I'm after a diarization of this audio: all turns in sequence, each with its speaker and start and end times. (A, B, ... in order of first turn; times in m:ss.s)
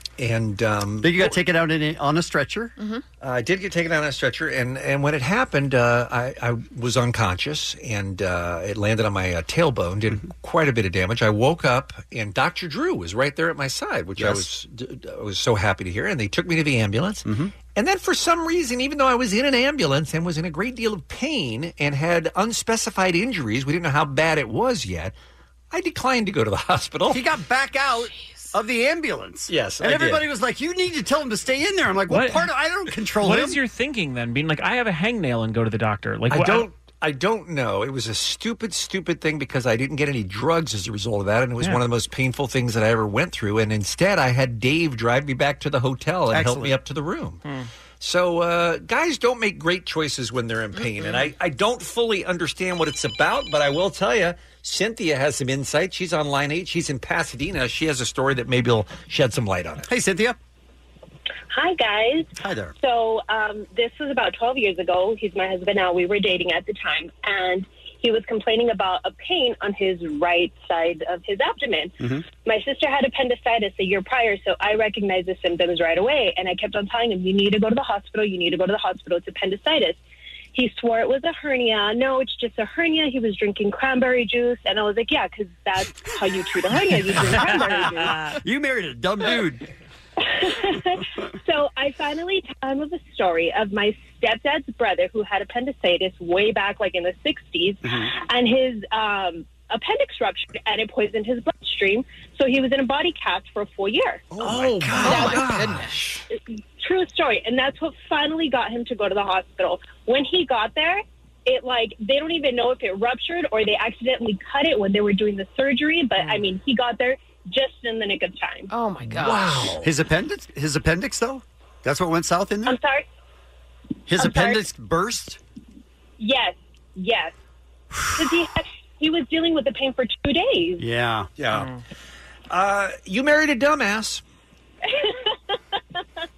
0:00.2-0:01.3 A
0:01.0-0:02.7 B
0:02.8-0:03.0 C
0:03.2-0:25.1 A
0:14.2-0:14.4 B
0:17.2-0:17.5 B
0:25.7-0:27.2 A
0:27.1-0:33.6 B
0:28.1-0:28.5 C
0:29.5-0:30.2 A
0:32.1-0:32.5 D
0:33.2-0:36.7 D
0:36.3-0:47.4 A
0:46.3-0:46.8 B
0:48.0-0:59.9 A
0:50.8-0:51.1 C
0:59.9-1:00.4 B
1:01.5-1:20.0 E
1:02.4-1:02.7 B
1:12.0-1:12.3 B
1:20.5-1:28.3 E
1:27.3-1:27.8 B
1:28.4-1:29.7 B
1:30.2-1:44.4 E
1:37.8-1:38.1 B
1:44.4-1:45.3 B
1:44.4-1:46.2 A
1:45.0-1:45.9 C
1:46.3-1:58.7 E
1:58.7-1:59.8 C
1:59.1-1:59.9 A
1:59.8-2:02.8 B
2:02.6-2:03.0 E
2:04.1-2:05.4 B
2:04.2-2:04.6 E
2:06.2-2:07.3 E
2:08.2-2:10.8 E
2:10.8-2:11.3 B
2:11.4-2:11.7 A
2:11.5-2:11.8 D
2:12.5-2:14.2 A
2:14.8-2:15.6 E